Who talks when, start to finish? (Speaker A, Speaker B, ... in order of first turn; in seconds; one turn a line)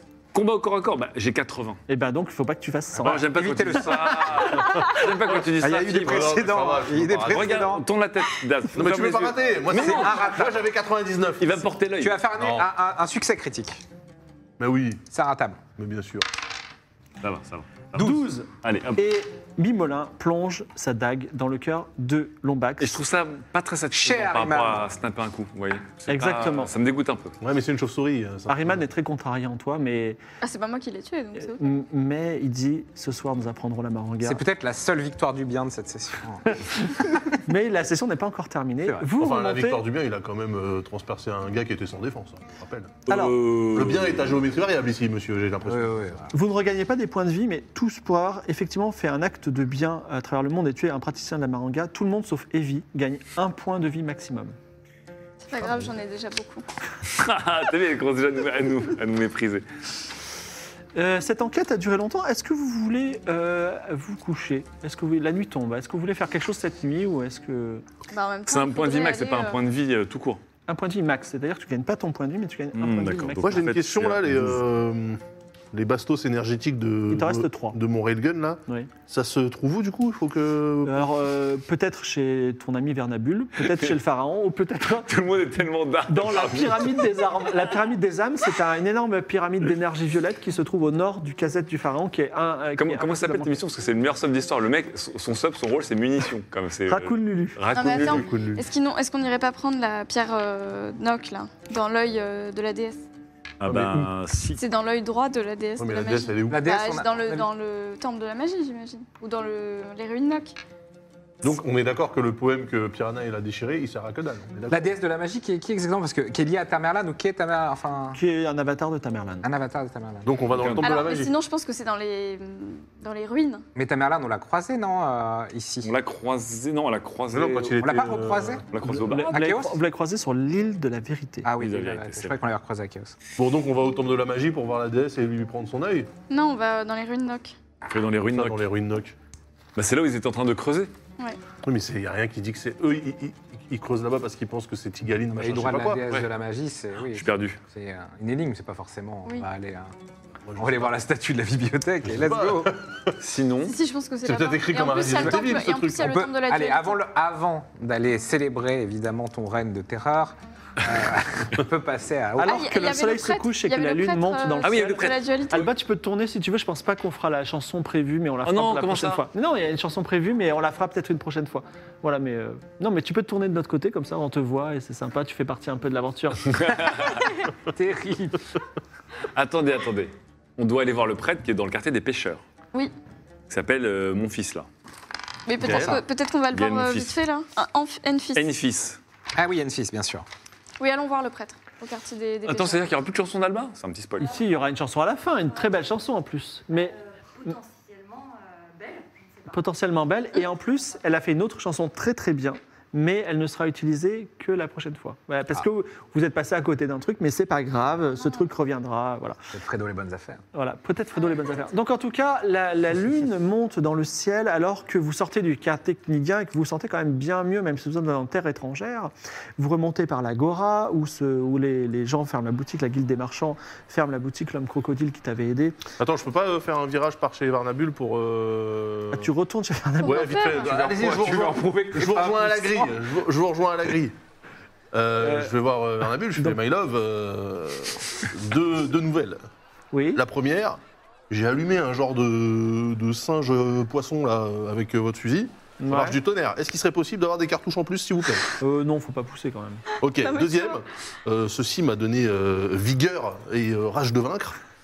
Speaker A: 0.3-1.8
Speaker B: 1.9-3.3
Speaker C: 3.0-4.5
Speaker A: 3.0-6.5
Speaker B: 3.9-4.8
Speaker C: 5.6-7.8
Speaker D: 5.7-7.5
Speaker A: 7.2-10.3
Speaker D: 8.7-11.7
Speaker C: 9.7-10.6
Speaker A: 11.4-12.2
Speaker C: 12.0-13.8
Speaker D: 12.3-12.7
Speaker D: 14.6-15.1
Speaker C: 15.1-15.6
Speaker D: 15.8-16.3
Speaker A: 17.2-19.0
Speaker B: 17.9-23.0
Speaker A: 22.8-27.4
Speaker C: 23.9-24.9
Speaker B: 26.1-26.7
Speaker D: 27.4-28.8
Speaker B: 28.5-30.2
Speaker E: 30.4-31.8
Speaker B: 31.4-34.4
Speaker C: 34.2-37.2
Speaker B: 36.7-39.8
Speaker D: 39.2-43.0
Speaker A: 43.1-44.3
Speaker B: 43.1-43.4
Speaker D: 43.7-46.0
Speaker C: 45.7-46.3
Speaker B: 46.3-54.6
Speaker E: 55.4-56.6
Speaker A: 57.1-59.6
Speaker B: 61.0-67.8
Speaker E: 68.1-69.6
Speaker A: 68.5-70.4
Speaker B: 70.7-73.7
Speaker A: 72.7-74.6
Speaker D: 73.4-75.2
Speaker D: 75.7-81.1
Speaker B: 77.1-77.8
Speaker B: 80.8-85.1
Speaker A: 85.0-87.0
Speaker B: 86.1-93.5
Speaker A: 92.8-98.3
Speaker B: 96.9-97.6
Speaker E: 97.7-103.0
Speaker D: 97.8-98.7
Speaker A: 103.6-104.6
Speaker D: 103.7-104.1
Speaker E: 104.6-110.6
Speaker D: 105.8-106.6
Speaker C: 106.5-107.5
Speaker D: 111.4-114.9
Speaker C: 114.7-118.2
Speaker B: 118.1-119.5
Speaker C: 119.4-120.3
Speaker D: 120.2-121.3
Speaker A: 120.6-120.9
Speaker E: 120.8-123.6
Speaker C: 123.8-125.9
Speaker A: 125.8-127.8
Speaker D: 127.3-128.6
Speaker C: 127.8-128.6
Speaker A: 128.7-129.4
Speaker B: 128.8-131.5
Speaker C: 129.3-129.8
Speaker C: 131.4-133.2
Speaker A: 131.6-132.4
Speaker D: 133.4-136.1
Speaker E: 136.3-137.5
Speaker A: 137.8-138.7
Speaker D: 138.3-139.2
Speaker A: 139.8-140.9
Speaker D: 141.6-146.0
Speaker C: 145.3-149.9
Speaker A: 147.2-147.6
Speaker D: 150.5-150.9
Speaker C: 150.6-152.8
Speaker D: 152.0-153.2
Speaker A: 153.2-153.8
Speaker E: 153.6-157.0
Speaker D: 154.2-156.2
Speaker C: 155.1-155.4
Speaker C: 156.0-162.6
Speaker B: 162.4-176.8
Speaker E: 162.4-165.7
Speaker A: 164.6-165.5
Speaker A: 168.4-169.2
Speaker A: 176.5-177.2
Speaker C: 177.7-178.5
Speaker A: 179.3-182.4
Speaker A: 183.5-184.7
Speaker E: 185.5-188.5
Speaker A: 185.6-187.2
Speaker C: 185.6-186.0
Speaker A: 188.3-189.0
Speaker C: 189.3-190.2
Speaker E: 190.8-192.9
Speaker A: 192.4-194.3
Speaker B: 194.2-197.6
Speaker B: 199.4-209.4
Speaker C: 209.5-210.4
Speaker B: 210.5-225.8
Speaker D: 226.0-229.3
Speaker B: 229.1-230.5
Speaker E: 230.0-230.7
Speaker D: 230.0-234.2
Speaker C: 230.6-233.0
Speaker D: 234.9-239.4
Speaker B: 235.2-235.5
Speaker B: 239.9-240.2
Speaker D: 240.1-248.5
Speaker B: 245.8-246.2
Speaker B: 248.6-249.8
Speaker D: 250.0-254.6
Speaker E: 250.2-250.8